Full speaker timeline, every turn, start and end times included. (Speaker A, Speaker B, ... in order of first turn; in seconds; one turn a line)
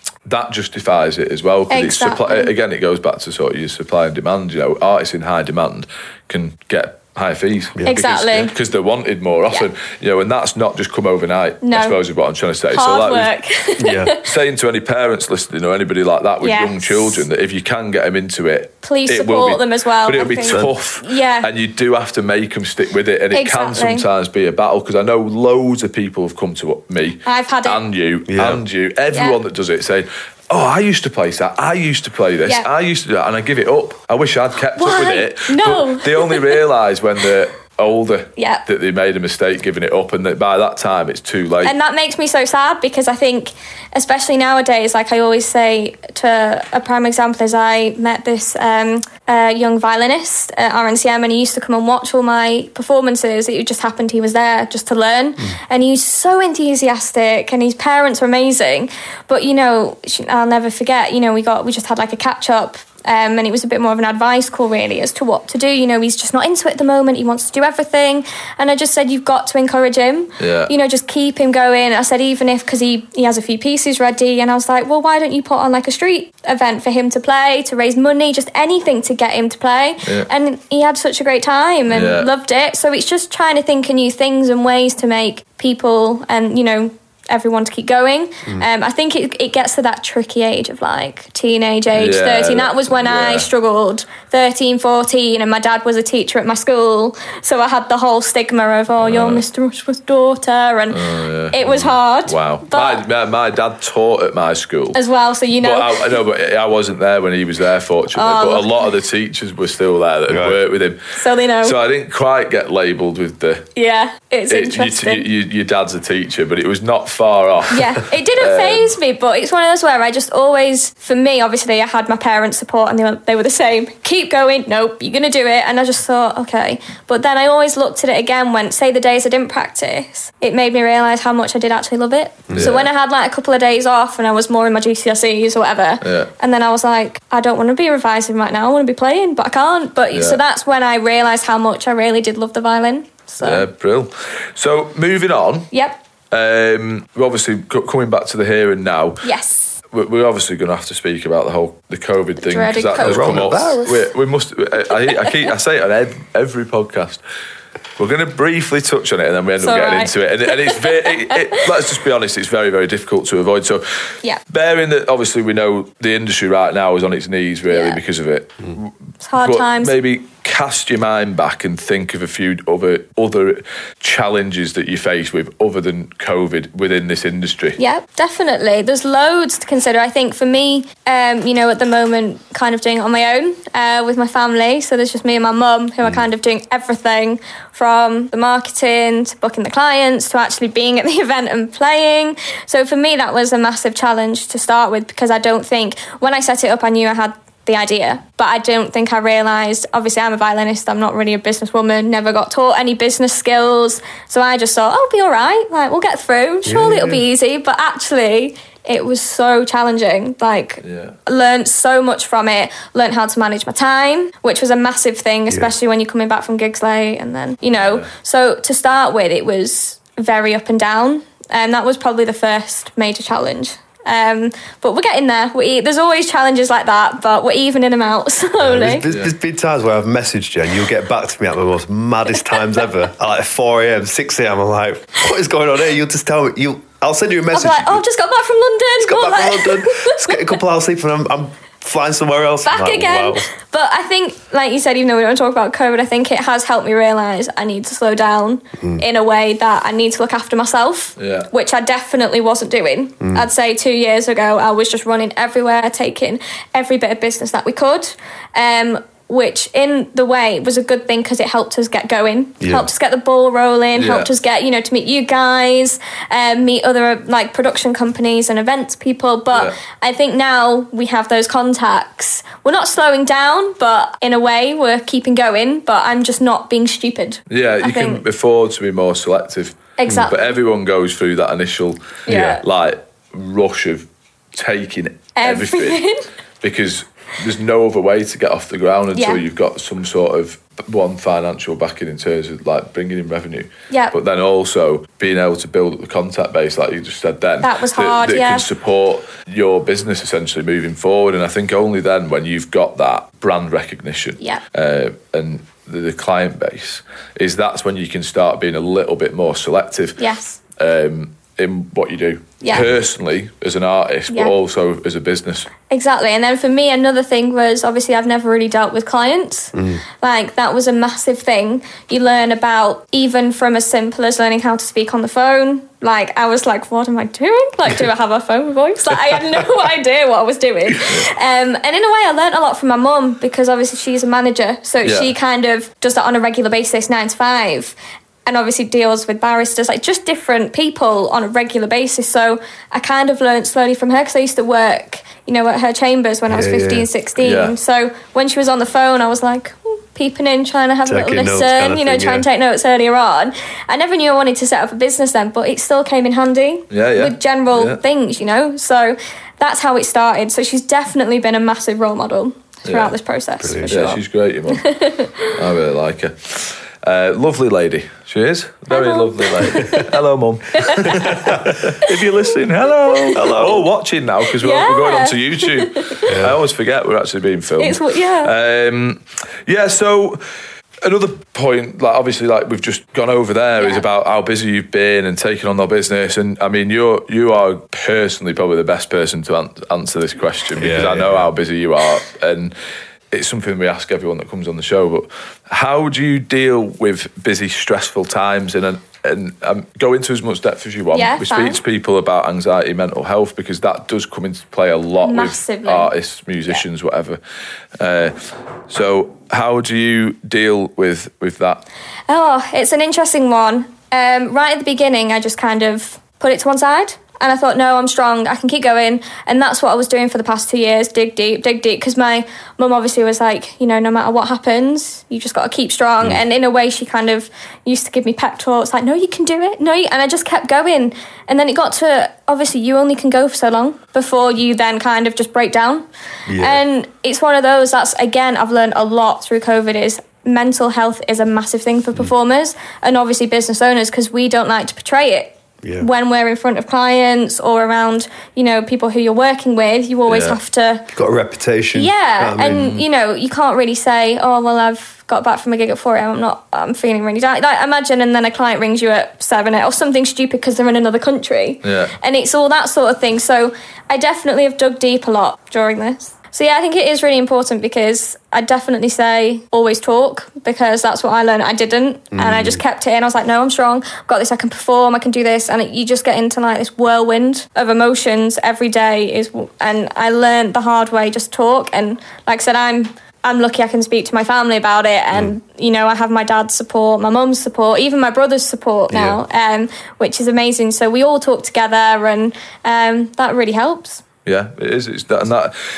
Speaker A: 0.2-13.3
Speaker B: 1.7-2.5
Speaker B: 7.8-8.5
Speaker B: 11.6-11.9
Speaker B: 12.7-14.2
Speaker C: 13.8-14.1
Speaker A: 14.2-41.7
Speaker B: 16.4-17.2
Speaker B: 18.8-21.5
Speaker B: 23.3-24.0
Speaker B: 27.2-27.8
Speaker C: 28.3-28.6
Speaker B: 29.1-29.4
Speaker B: 34.8-36.6
Speaker B: 38.4-38.6
Speaker B: 41.6-101.0
Speaker A: 70.4-70.7
Speaker A: 81.9-82.3
Speaker A: 91.9-93.5
Speaker A: 99.0-99.4
Speaker A: 100.9-105.0
Speaker B: 101.5-103.0
Speaker B: 104.9-106.2
Speaker A: 105.6-111.0
Speaker B: 108.1-108.9
Speaker C: 110.3-110.6
Speaker B: 111.1-111.8
Speaker A: 111.6-113.7
Speaker B: 113.8-115.3
Speaker A: 114.5-118.9
Speaker B: 117.7-143.6
Speaker C: 132.5-132.8
Speaker A: 132.5-132.9
Speaker A: 136.0-136.3
Speaker A: 140.1-140.4
Speaker A: 143.4-145.7
Speaker B: 145.7-146.0
Speaker A: 146.3-149.2
Speaker B: 149.2-149.7
Speaker A: 149.9-157.2
Speaker B: 152.4-153.8
Speaker C: 153.0-154.0
Speaker A: 158.0-163.8
Speaker B: 159.6-161.6
Speaker A: 164.5-177.8
Speaker B: 167.7-168.0
Speaker B: 169.2-169.9
Speaker B: 177.8-229.1
Speaker C: 206.7-207.2
Speaker A: 210.8-211.2
Speaker A: 217.8-218.1
Speaker C: 228.6-238.0
Speaker A: 229.1-229.3
Speaker B: 237.5-240.6
Speaker C: 239.0-243.5
Speaker B: 242.6-278.2
Speaker A: 251.2-251.5
Speaker C: 262.6-262.9
Speaker A: 263.9-264.3
Speaker A: 277.5-286.0
Speaker B: 280.0-280.6
Speaker B: 282.3-282.6
Speaker B: 285.4-286.2
Speaker A: 286.6-310.2
Speaker B: 289.1-289.4
Speaker B: 297.6-298.7
Speaker B: 310.2-310.6
Speaker A: 310.8-315.7
Speaker B: 312.6-312.9
Speaker B: 314.3-314.5
Speaker B: 315.9-337.9
Speaker C: 319.7-320.0
Speaker A: 331.0-331.3
Speaker A: 335.0-335.3
Speaker B: 338.4-364.2
Speaker C: 346.5-347.1
Speaker A: 347.4-347.7
Speaker C: 351.1-352.4
Speaker A: 356.9-358.0
Speaker A: 362.8-363.1
Speaker C: 363.6-364.1
Speaker A: 363.9-364.9
Speaker B: 364.7-365.5
Speaker A: 365.4-380.4
Speaker B: 368.9-370.2
Speaker B: 370.7-372.2
Speaker C: 371.1-371.8
Speaker B: 373.1-373.5
Speaker C: 373.3-373.9
Speaker B: 374.5-376.3
Speaker C: 376.3-376.6
Speaker B: 377.8-378.5
Speaker A: 381.0-392.7
Speaker B: 383.8-384.0
Speaker C: 390.8-391.5
Speaker A: 393.3-407.4
Speaker B: 401.1-401.8
Speaker B: 405.2-406.1
Speaker A: 408.0-408.4
Speaker A: 408.9-411.8
Speaker B: 412.3-436.0
Speaker C: 436.5-436.8
Speaker B: 436.6-451.1
Speaker C: 445.8-446.1
Speaker A: 450.3-450.6
Speaker C: 451.1-453.0
Speaker B: 451.9-494.2
Speaker A: 461.8-462.1
Speaker C: 472.3-472.8
Speaker C: 489.1-489.4
Speaker A: 494.4-495.7